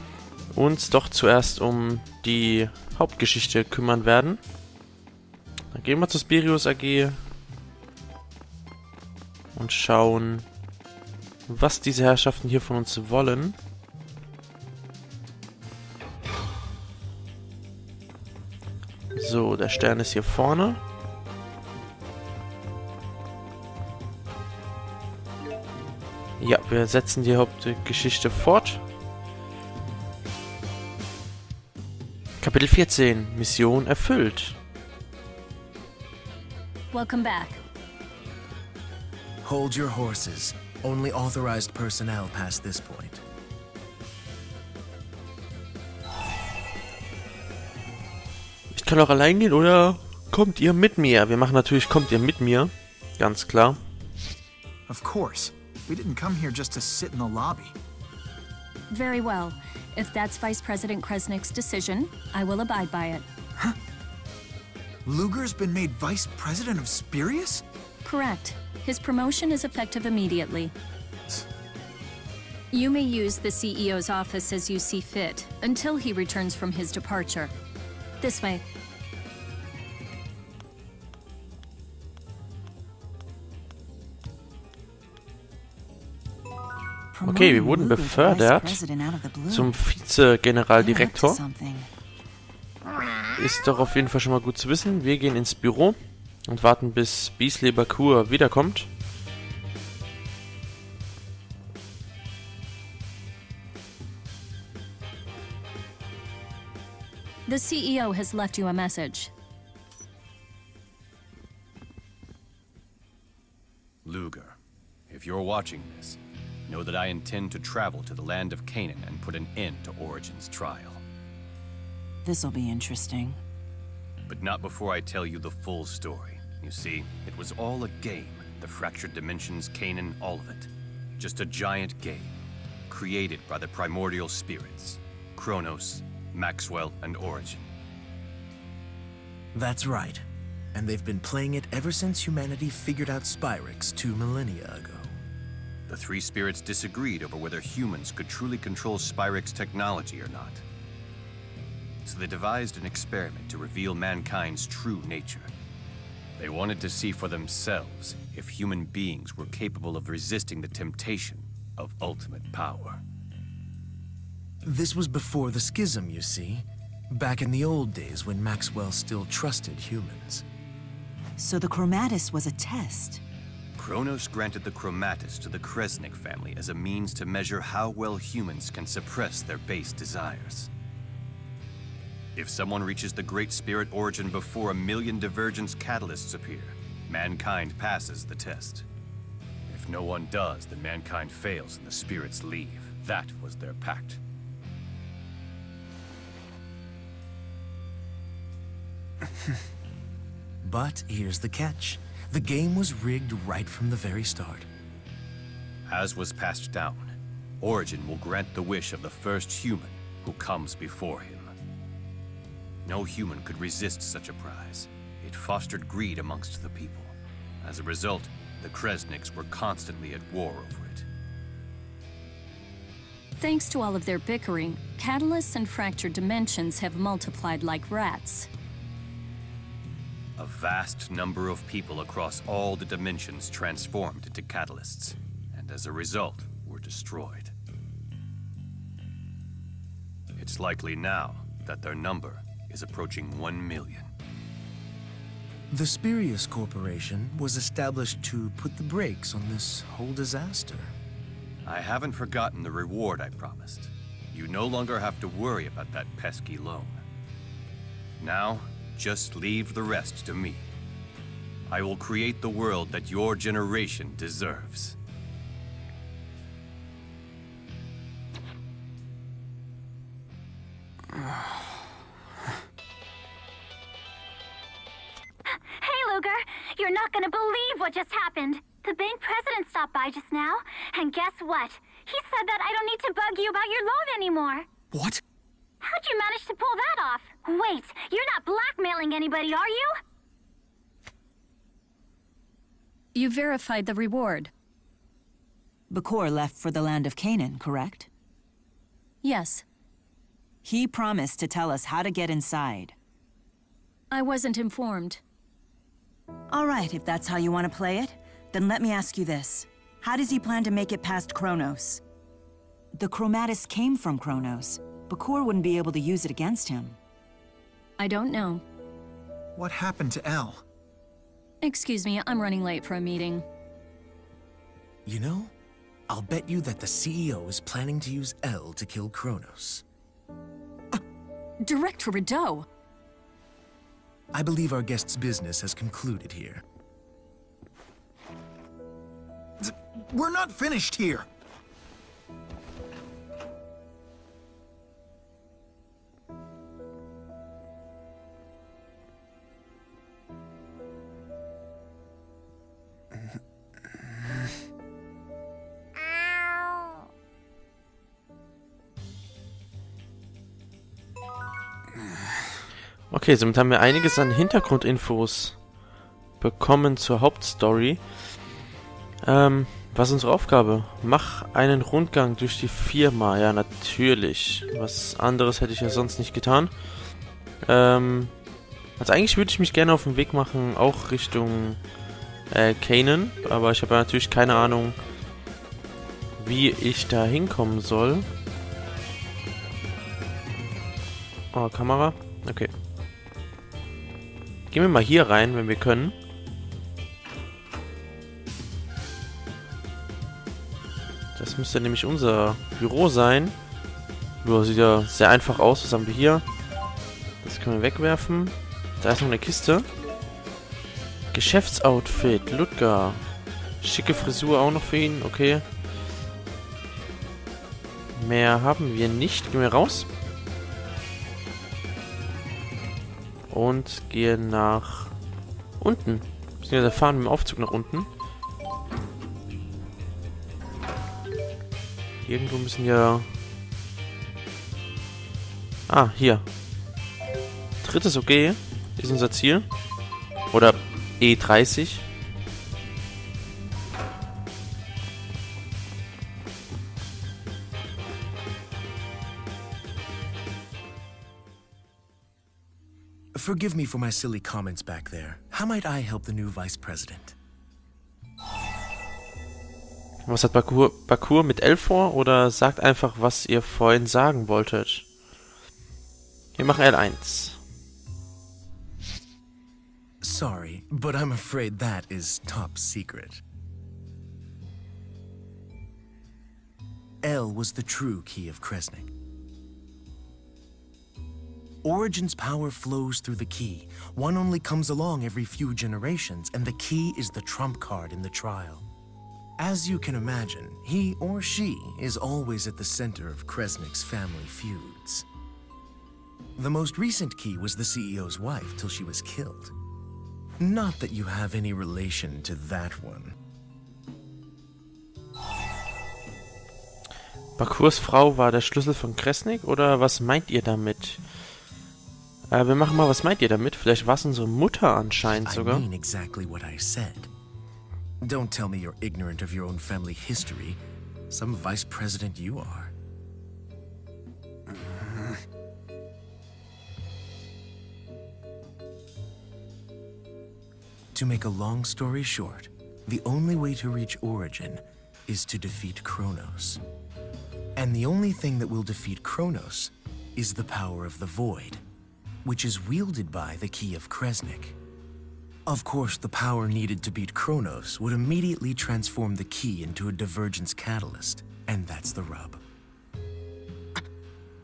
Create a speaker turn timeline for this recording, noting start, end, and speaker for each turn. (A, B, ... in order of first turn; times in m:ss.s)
0:00.5-0:04.4 A
0:05.7-0:07.2 A
0:09.5-0:10.5 A
0:11.5-0:13.6 A
0:19.1-0:20.8 A
0:26.4-0:28.8 A
0:32.4-0:34.6 A
0:36.9-0:37.6 B
0:39.4-0:43.2 C
0:48.7-0:53.8 A
0:54.9-0:57.8 D
0:58.9-1:03.2 B
1:05.0-1:07.6 D
1:08.0-1:10.7 B
1:12.7-1:17.5 B
1:18.2-1:18.6 B
1:27.1-1:29.7 E
1:27.2-1:28.8 A
1:29.5-1:31.4 A
1:30.8-1:31.9 E
1:33.3-1:38.9 A
1:47.5-1:49.3 B
1:54.0-1:54.6 F
1:55.1-2:01.0 F
2:02.2-2:03.4 E
2:04.3-2:12.4 F
2:12.9-2:17.7 F
2:19.5-2:25.2 C
2:25.9-2:30.6 F
2:32.0-2:35.5 F
2:36.4-2:43.0 F
2:44.6-2:50.4 C
2:51.4-2:53.2 E
2:53.8-3:00.7 F
3:02.3-3:08.8 F
3:09.7-3:14.2 F
3:20.6-3:24.7 C
3:25.9-3:31.5 F
3:32.8-3:41.0 F
3:43.4-3:48.5 B
3:50.4-3:57.5 F
4:00.4-4:04.1 F
4:05.7-4:11.0 C
4:11.6-4:17.0 F
4:18.2-4:20.7 F
4:21.7-4:25.0 F
4:35.7-4:44.6 G
4:44.9-4:45.2 D
4:45.8-4:49.9 G
4:53.1-4:54.5 B
4:55.9-4:58.1 E
4:59.2-4:59.6 B
5:00.6-5:03.0 E
5:04.1-5:05.2 B
5:06.5-5:12.0 E
5:12.9-5:17.0 E
5:18.0-5:18.6 B
5:19.5-5:20.6 D
5:21.6-5:23.4 B
5:25.0-5:25.5 C
5:26.1-5:29.8 C
5:31.6-5:32.6 B
5:34.3-5:36.6 C
5:39.6-5:41.3 D
6:03.1-6:05.6 A
6:06.4-6:08.2 A
6:09.2-6:16.8 A
6:17.6-6:18.4 A
6:19.0-6:21.8 A
6:22.5-6:25.0 A
6:26.4-6:28.3 A
6:31.5-6:32.7 A
6:34.7-6:36.2 A
6:41.4-6:43.5 A
6:44.4-6:46.4 A
6:47.4-6:49.9 A
6:51.3-6:53.2 A
6:53.8-6:55.6 A
6:58.1-7:00.1 A
7:03.5-7:05.1 A
7:05.8-7:08.1 A
7:12.2-7:13.3 A
7:15.9-7:16.4 A
7:17.8-7:19.7 A
7:20.5-7:22.0 A
7:33.3-7:37.4 C
7:40.2-7:45.0 A
7:46.6-7:47.6 A
7:50.2-7:53.4 C
7:57.2-7:59.1 C
8:01.8-8:08.9 C
8:09.6-8:15.3 C
8:16.6-8:19.7 C
8:20.6-8:23.3 C
8:27.6-8:31.2 A
8:32.5-8:35.8 A
8:35.3-8:37.3 C
8:38.2-8:42.9 C
8:51.1-8:56.8 C
8:57.8-9:01.8 C
9:02.4-9:04.8 C
9:05.7-9:12.6 C